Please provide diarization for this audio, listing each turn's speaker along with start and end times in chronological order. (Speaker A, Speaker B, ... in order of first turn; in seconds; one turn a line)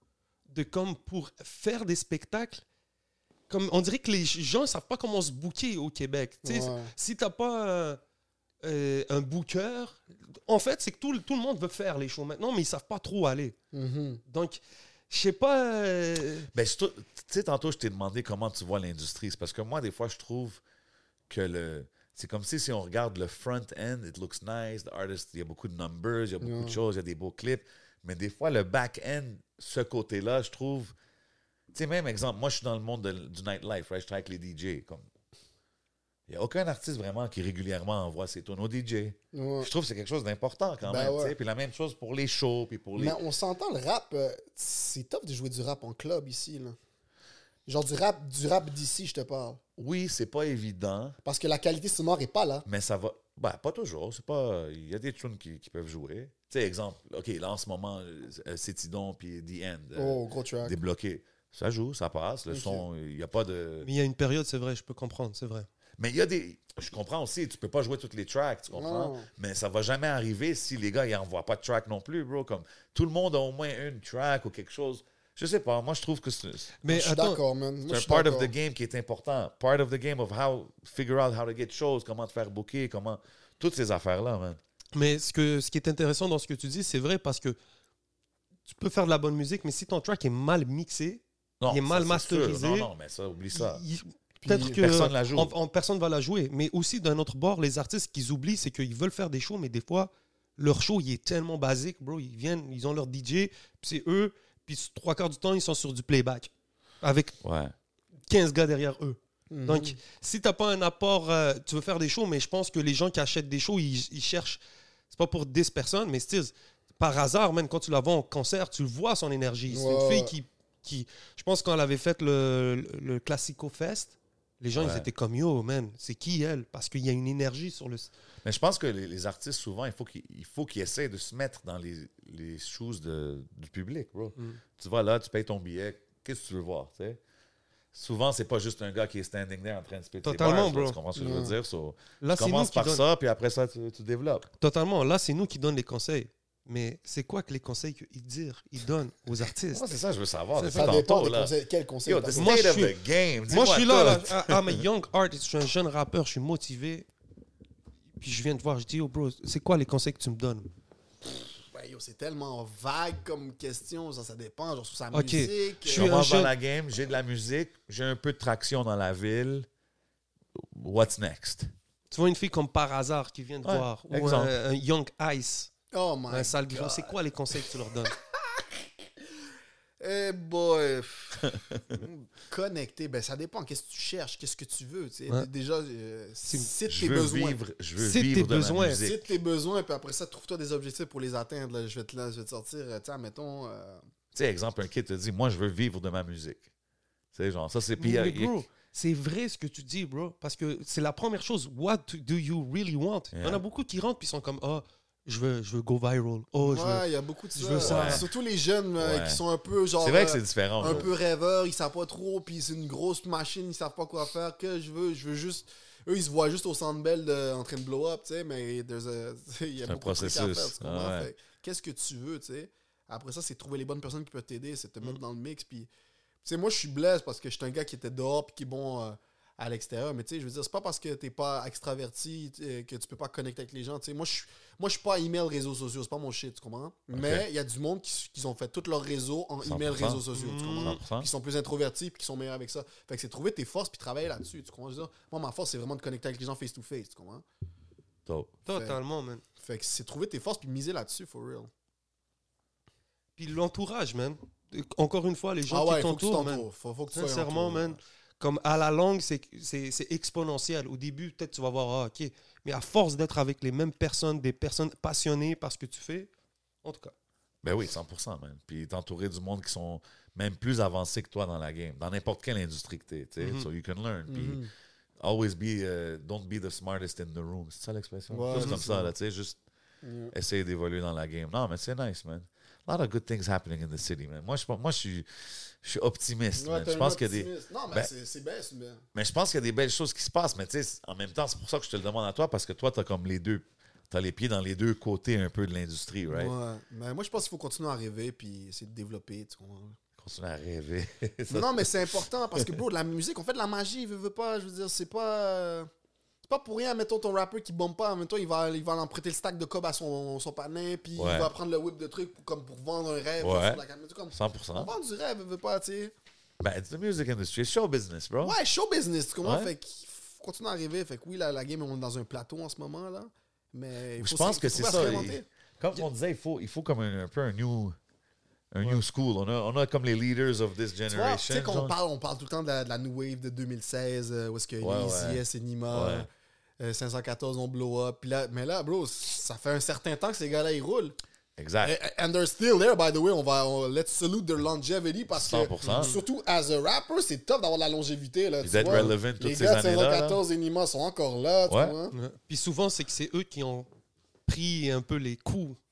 Speaker A: 0.5-2.6
Speaker A: 3.5-8.0
Speaker B: 6.4-6.9
Speaker A: 8.6-13.6
Speaker B: 13.7-14.2
Speaker A: 14.3-16.5
Speaker C: 16.5-20.6
Speaker C: 21.3-30.9
Speaker B: 26.4-26.8
Speaker C: 31.7-35.1
Speaker C: 36.3-43.2
Speaker B: 39.3-39.7
Speaker B: 40.8-41.4
Speaker B: 43.0-46.8
Speaker B: 47.7-49.6
Speaker C: 49.8-51.2
Speaker B: 51.2-52.6
Speaker C: 52.7-63.9
Speaker B: 60.0-60.8
Speaker B: 62.5-62.9
Speaker A: 63.8-65.7
Speaker C: 66.0-76.8
Speaker B: 68.7-69.3
Speaker A: 76.8-77.4
Speaker B: 76.9-78.5
Speaker C: 77.9-84.6
Speaker A: 85.0-87.6
Speaker A: 88.7-92.9
Speaker C: 91.6-93.8
Speaker A: 93.5-106.5
Speaker B: 94.4-94.8
Speaker C: 94.7-95.5
Speaker A: 107.0-107.3
Speaker C: 107.4-107.7
Speaker A: 108.3-114.6
Speaker B: 109.5-110.0
Speaker A: 115.1-128.1
Speaker B: 119.7-120.3
Speaker C: 124.8-125.1
Speaker C: 128.4-137.2
Speaker C: 137.9-144.5
Speaker A: 140.2-141.0
Speaker B: 141.1-141.6
Speaker A: 142.2-143.0
Speaker A: 144.6-149.9
Speaker C: 149.7-151.5
Speaker A: 150.6-151.0
Speaker B: 150.6-152.6
Speaker C: 152.1-154.8
Speaker A: 152.3-153.0
Speaker A: 153.5-157.1
Speaker A: 158.2-160.7
Speaker B: 161.4-166.2
Speaker A: 165.1-166.5
Speaker C: 165.9-169.7
Speaker C: 170.6-171.7
Speaker A: 172.1-175.7
Speaker C: 173.6-174.6
Speaker B: 175.9-177.1
Speaker A: 176.3-178.1
Speaker B: 180.0-187.6
Speaker C: 186.9-189.3
Speaker A: 188.0-189.0
Speaker B: 189.0-194.0
Speaker C: 194.3-196.7
Speaker C: 197.3-198.6
Speaker A: 198.0-208.2
Speaker C: 203.3-203.6
Speaker B: 206.6-225.9
Speaker C: 207.8-208.2
Speaker C: 209.0-209.4
Speaker C: 210.0-211.1
Speaker C: 219.9-221.3
Speaker B: 226.4-247.4
Speaker C: 237.1-237.4
Speaker C: 239.6-240.2
Speaker A: 240.3-241.0
Speaker C: 240.8-241.3
Speaker C: 248.3-248.5
Speaker A: 248.7-249.4
Speaker B: 248.7-249.0
Speaker B: 249.6-251.7
Speaker A: 253.4-266.3
Speaker B: 255.7-258.0
Speaker A: 266.8-267.1
Speaker C: 267.6-274.6
Speaker A: 273.4-273.7
Speaker B: 274.3-274.7
Speaker C: 275.2-279.6
Speaker B: 278.3-279.1
Speaker A: 278.5-278.8
Speaker B: 280.0-280.3
Speaker C: 280.3-285.3
Speaker C: 285.8-288.1
Speaker B: 286.6-289.0
Speaker C: 289.1-296.5
Speaker B: 296.3-300.0
Speaker C: 300.2-302.1
Speaker B: 301.5-305.9
Speaker B: 306.4-316.1
Speaker C: 311.2-311.5
Speaker C: 313.4-313.8
Speaker C: 314.3-314.9
Speaker C: 316.6-318.6
Speaker B: 318.4-325.5
Speaker C: 319.4-319.7
Speaker C: 324.2-328.0
Speaker C: 328.7-331.9
Speaker B: 331.1-336.3
Speaker C: 334.8-336.3
Speaker B: 336.8-341.1
Speaker C: 341.6-342.0
Speaker B: 341.8-352.2
Speaker C: 345.3-346.1
Speaker A: 345.8-346.2
Speaker C: 348.6-350.4
Speaker C: 351.7-351.9
Speaker A: 352.1-353.9
Speaker A: 354.5-355.8